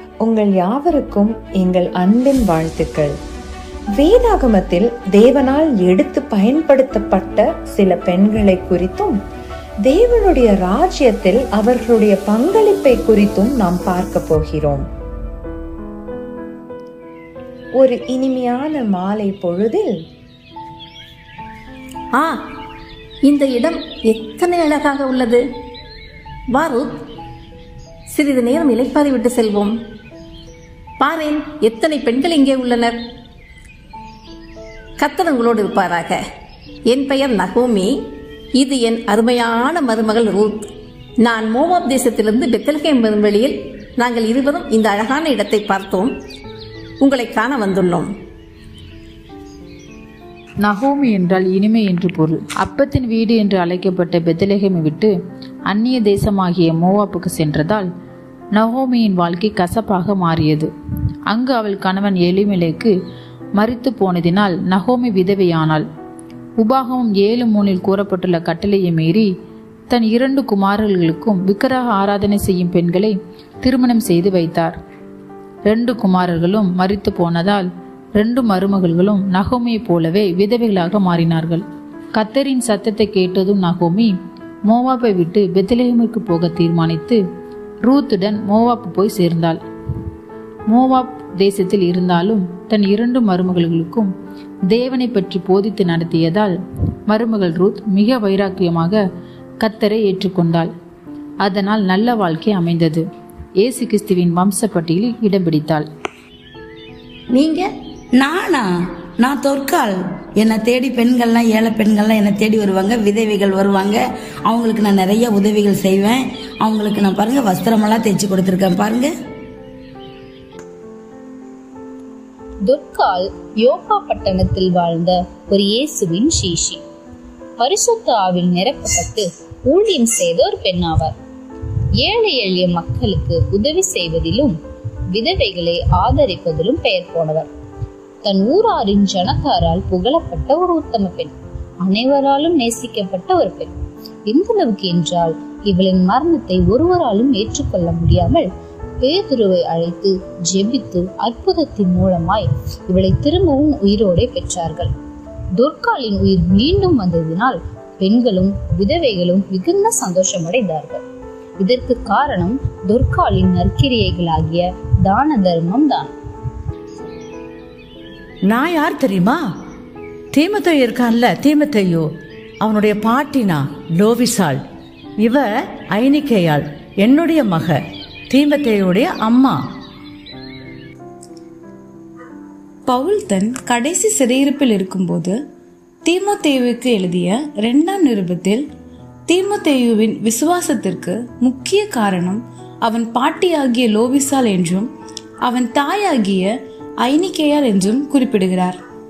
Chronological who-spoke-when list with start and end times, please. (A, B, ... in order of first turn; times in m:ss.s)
0:00.2-0:03.1 A
0:04.0-0:09.2 A
0:09.9-0:14.8 A
0:17.8-0:19.9 A
0:22.1-0:22.4 B
0:23.2-0:25.4 B
0:26.5-0:27.0 B
0:28.1-0:29.7 B
0:31.0-0:33.0 B
0:35.0-0:36.2 B
0:36.8-0:37.9 B
0:38.6-0:40.6 B
0:41.2-0:46.1 B
0:47.0-0:48.1 B
0:50.6-0:55.1 C
0:55.7-0:57.9 C
0:58.5-1:00.7 C
1:01.3-1:02.9 C
1:03.6-1:05.8 C
1:06.6-1:09.3 C
1:09.9-1:14.8 C
1:15.7-1:21.6 C
1:22.2-1:24.1 C
1:24.7-1:27.2 C
1:27.8-1:29.6 C
1:30.7-1:34.1 C
1:34.7-1:36.6 C
1:37.1-1:39.0 C
1:39.6-1:40.7 C
1:41.4-1:43.0 C
1:43.6-1:45.9 C
1:47.3-1:47.6 B
1:48.2-1:48.6 D
1:49.2-1:59.1 D
2:02.7-2:06.8 E
2:07.6-2:11.1 E
2:12.0-2:14.6 E
2:15.1-2:17.5 E
2:18.2-2:23.7 E
2:24.3-2:28.5 E
2:29.0-2:34.9 E
2:35.6-2:41.0 E
2:41.6-2:46.1 E
2:48.5-2:49.4 F
2:50.3-2:52.1 F
2:52.6-2:54.6 F
2:55.2-2:57.8 F
2:58.3-2:59.6 F
3:02.9-3:05.3 G
3:06.0-3:08.6 G
3:09.3-3:14.9 G
3:15.4-3:18.8 G